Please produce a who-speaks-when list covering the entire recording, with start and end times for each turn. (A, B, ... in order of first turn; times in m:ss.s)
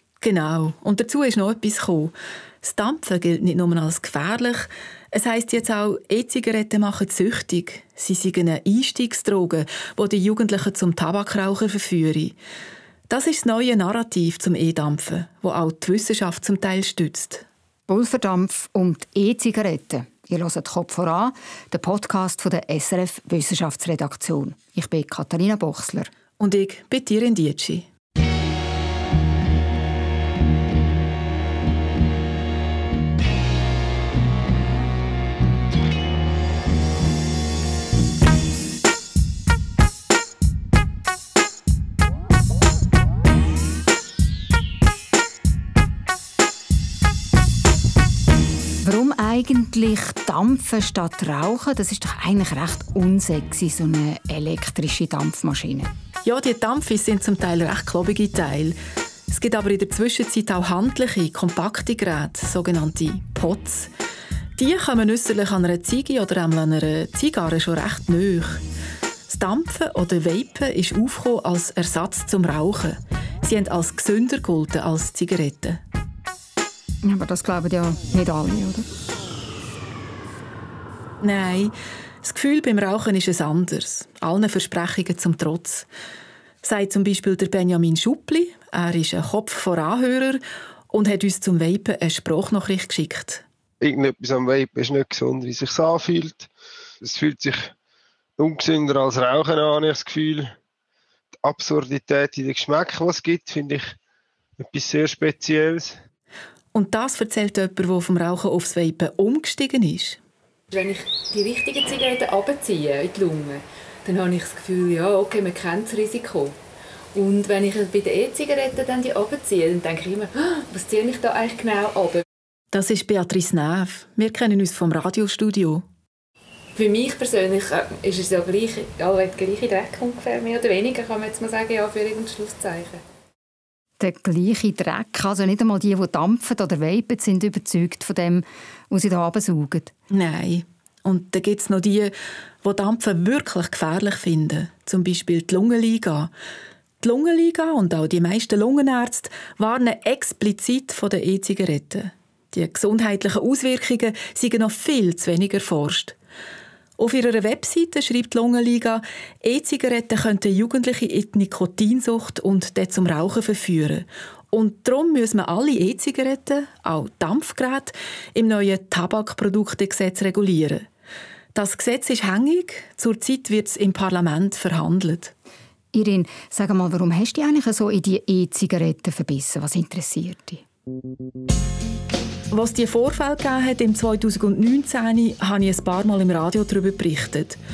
0:00.2-0:12.4 A
0:13.1-0:17.4 A
0:17.9-0:26.1 B
0:26.4-0:27.9 A
0:48.8-0:55.9 B
0:56.2-0:58.8 A
0:59.3-1:03.9 A
1:04.6-1:08.6 A
1:09.3-1:15.8 A
1:17.0-1:18.9 B
1:21.2-1:25.9 A
1:26.6-1:33.4 A
1:33.8-1:36.5 C
1:37.0-1:37.7 C
1:38.4-1:40.5 C
1:41.4-1:44.0 C
1:44.6-1:46.0 C
1:46.7-1:50.2 A
1:50.7-1:56.6 D
1:57.1-2:02.2 D
2:02.7-2:05.8 A
2:06.7-2:13.0 D
2:14.0-2:19.9 B
2:20.1-2:26.3 A
2:27.0-2:36.1 A
2:37.0-2:50.9 A
2:51.5-2:55.3 A
2:55.9-3:00.6 B
3:02.5-3:07.6 A